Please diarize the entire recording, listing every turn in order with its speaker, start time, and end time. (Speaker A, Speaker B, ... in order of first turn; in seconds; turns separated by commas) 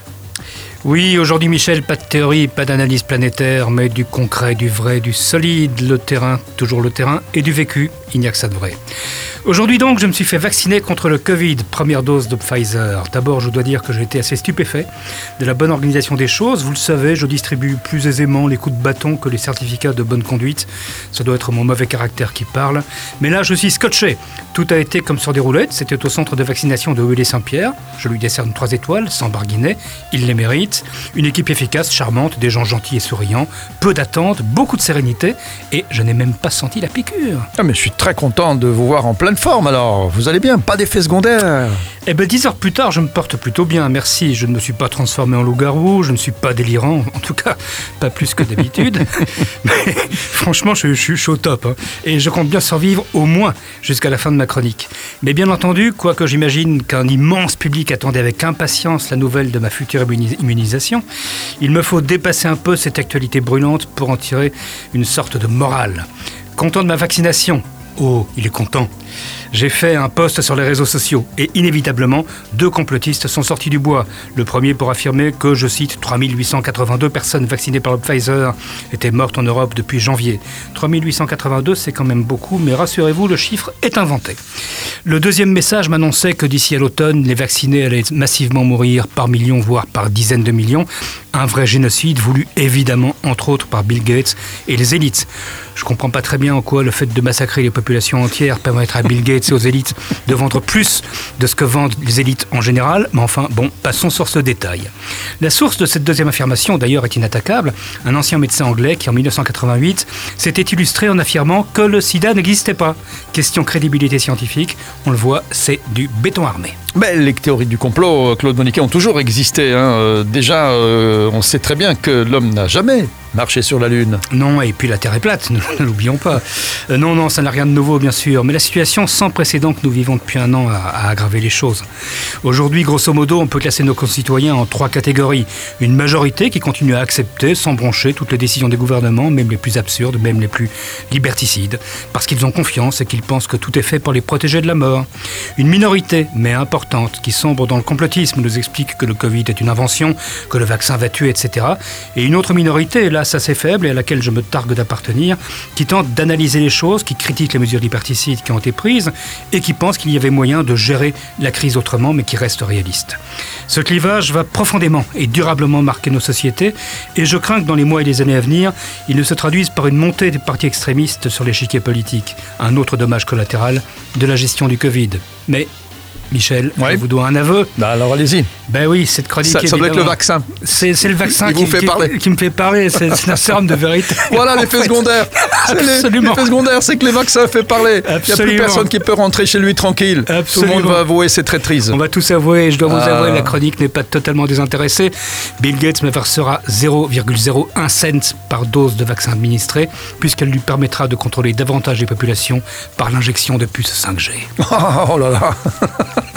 Speaker A: 0.8-8.8, Speaker A: 9.4-37.5, Speaker B: 37.6-41.8, Speaker A: 42.1-61.0, Speaker A: 61.6-68.9, Speaker A: 69.5-84.4, Speaker A: 85.0-116.8, Speaker B: 116.9-124.2, Speaker A: 124.3-131.9, Speaker A: 132.4-175.7, Speaker A: 176.3-177.7, Speaker B: 177.8-178.5, Speaker A: 178.7-186.6, Speaker B: 179.4-180.6, Speaker B: 181.3-182.1, Speaker B: 184.2-192.0, Speaker A: 188.0-188.9, Speaker A: 190.3-191.0, Speaker A: 191.9-204.5, Speaker B: 192.9-193.5, Speaker B: 204.6-206.1